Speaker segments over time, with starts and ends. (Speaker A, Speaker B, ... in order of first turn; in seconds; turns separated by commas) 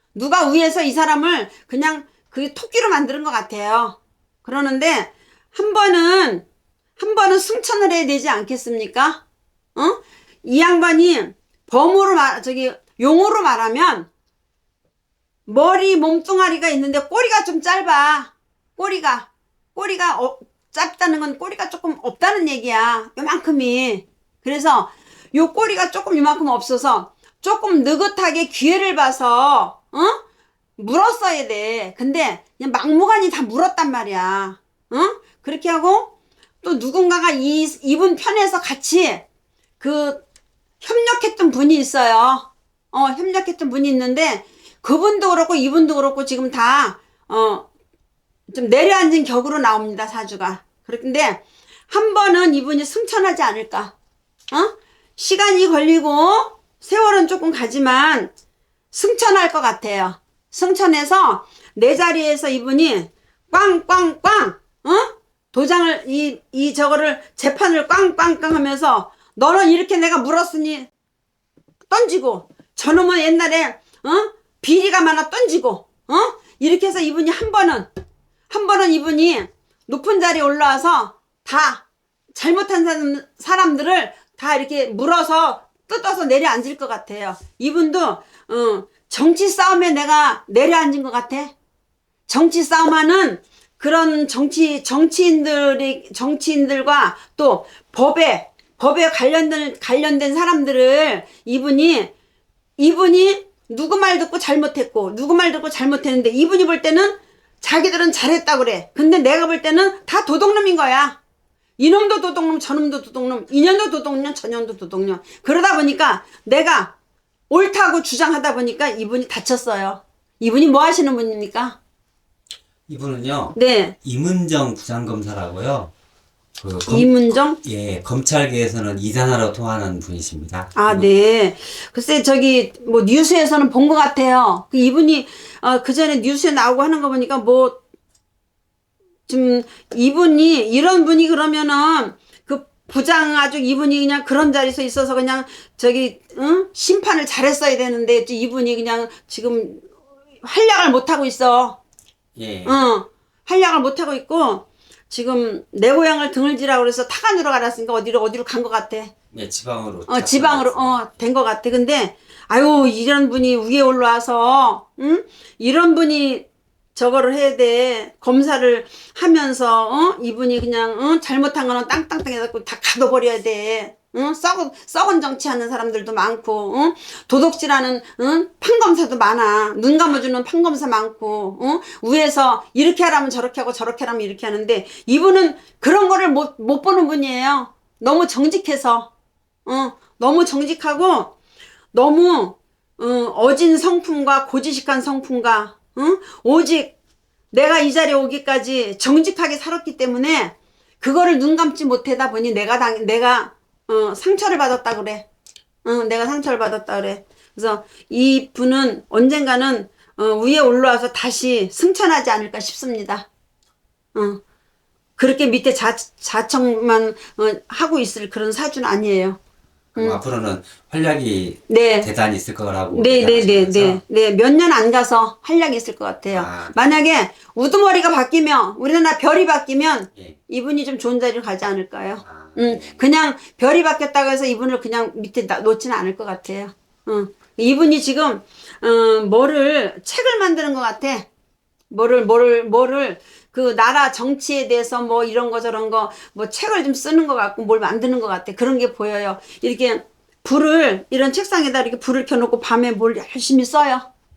Speaker A: 0.1-6.5, Speaker A: 7.0-9.2, Speaker A: 9.8-14.1, Speaker A: 15.5-30.2, Speaker A: 30.8-39.2, Speaker A: 39.8-40.2, Speaker A: 40.8-47.7, Speaker A: 48.5-53.9, Speaker A: 54.5-58.3, Speaker A: 58.9-70.9, Speaker A: 71.9-77.9, Speaker A: 78.5-91.5, Speaker A: 92.3-102.1, Speaker A: 102.8-111.2, Speaker A: 111.8-116.9, Speaker A: 117.5-121.8, Speaker B: 122.9-125.9, Speaker A: 123.5-124.0, Speaker B: 126.6-131.1, Speaker A: 126.9-127.6, Speaker A: 130.8-137.8, Speaker A: 139.3-149.9, Speaker A: 150.4-151.8, Speaker B: 152.4-152.8, Speaker A: 152.7-159.1, Speaker B: 159.3-161.0, Speaker A: 160.1-189.1, Speaker A: 189.7-191.3, Speaker A: 191.9-197.0, Speaker A: 197.5-205.2, Speaker A: 205.8-213.3, Speaker A: 214.2-214.4, Speaker A: 215.2-219.4, Speaker B: 219.9-224.0, Speaker A: 221.7-222.1, Speaker A: 222.9-241.3, Speaker B: 226.3-227.0, Speaker B: 232.2-233.0, Speaker A: 241.9-254.1